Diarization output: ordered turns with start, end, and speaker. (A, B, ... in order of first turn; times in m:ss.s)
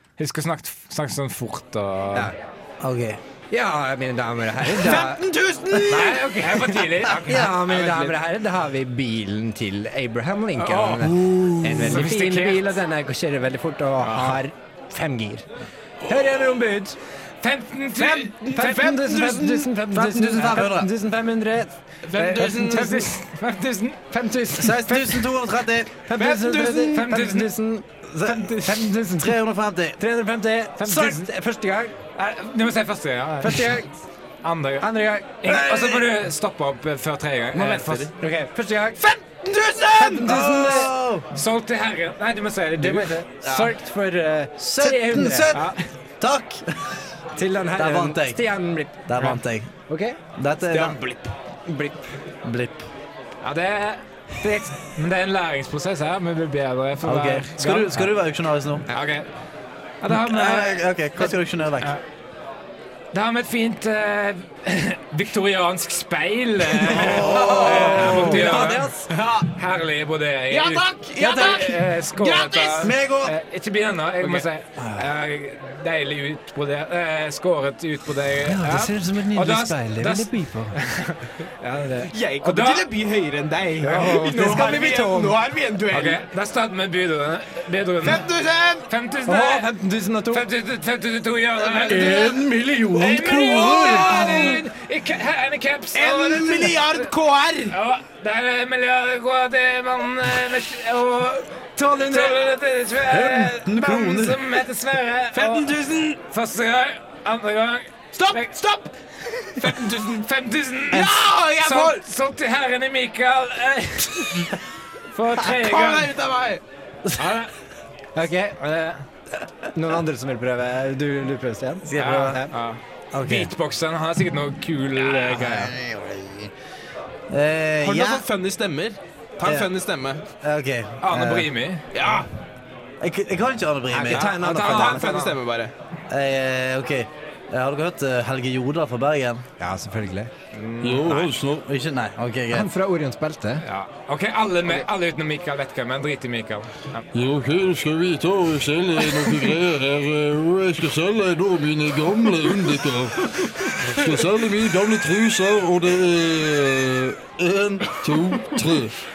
0:00.2-0:02.3 A
0:02.8-0:03.2 B
0:03.5-0:05.3 C
0:04.8-0:06.2 D
0:05.7-0:06.0 B
0:05.9-0:08.1 A
0:05.9-0:06.6 C
0:07.2-0:15.5 C
0:10.6-0:11.1 A
0:11.4-0:11.8 B
0:11.7-0:12.8 A
0:14.0-0:14.4 A
0:16.0-0:17.0 C
0:17.4-0:18.4 A
0:18.0-0:19.8 D
0:18.5-0:23.1 C
0:19.9-0:20.9 B
0:22.0-0:23.0 D
0:22.6-0:24.1 A
0:24.1-0:29.4 C
0:24.6-0:26.0 B
0:26.2-0:27.0 D
0:26.9-0:27.5 A
0:28.2-0:30.0 B
0:30.0-0:32.0 C
0:30.8-0:31.3 A
0:32.1-0:33.7 A
0:33.4-0:33.9 C
0:34.4-0:38.1 A
0:34.8-0:35.6 C
0:35.5-0:36.0 B
0:37.5-0:38.0 B
0:38.1-0:39.1 C
0:39.1-0:40.4 D
0:39.9-0:41.3 B
0:40.0-0:41.0 C
0:41.3-0:43.2 A
0:42.8-0:45.6 C
0:44.6-0:47.0 B
0:45.5-0:45.8 A
0:47.3-0:50.2 C
0:47.8-0:48.4 B
0:49.1-0:49.7 B
0:50.4-0:51.0 B
0:50.7-0:51.3 D
0:51.6-0:52.1 C
0:52.4-0:52.9 B
0:53.4-0:58.1 A
0:57.0-0:58.9 B
0:58.9-0:59.3 A
1:00.0-1:02.0 A
1:00.1-1:01.9 B
1:03.1-1:22.9 A
1:06.9-1:08.8 B
1:07.1-1:08.4 D
1:07.2-1:09.0 C
1:09.1-1:09.5 D
1:10.5-1:12.9 D
1:11.2-1:11.6 B
1:12.8-1:13.3 B
1:14.8-1:15.0 B
1:18.4-1:20.8 C
1:22.1-1:26.2 D
1:23.8-1:25.4 C
1:25.9-1:28.2 A
1:28.0-1:28.9 D
1:28.9-1:29.7 A
1:29.2-1:30.5 C
1:30.3-1:32.4 A
1:31.6-1:32.4 D
1:32.0-1:34.1 E
1:32.9-1:37.1 A
1:33.2-1:34.6 D
1:33.3-1:33.8 C
1:35.9-1:37.8 D
1:37.7-1:45.7 A
1:43.1-1:44.4 B
1:45.3-1:46.2 D
1:46.3-1:48.6 A
1:48.1-1:48.9 D
1:49.3-1:54.6 A
1:49.6-1:50.2 D
1:50.9-1:52.0 D
1:55.1-1:56.1 A
1:55.4-1:56.6 D
1:57.2-1:57.5 A
1:58.2-1:58.5 C
1:58.2-1:59.0 A
1:59.7-2:02.5 C
2:01.8-2:02.4 B
2:02.0-2:05.7 A
2:03.1-2:03.5 B
2:05.0-2:06.5 B
2:07.3-2:08.2 B
2:07.8-2:10.2 D
2:10.4-2:11.5 B
2:11.0-2:11.8 A
2:11.9-2:12.3 D
2:13.0-2:14.3 B
2:13.9-2:15.1 C
2:14.1-2:15.4 A
2:14.2-2:15.7 D
2:16.1-2:19.4 B
2:19.6-2:20.3 C
2:20.5-2:21.3 A
2:20.8-2:21.6 E
2:21.6-2:22.7 B
2:22.5-2:23.6 C
2:23.6-2:27.1 A
2:27.1-2:38.9 E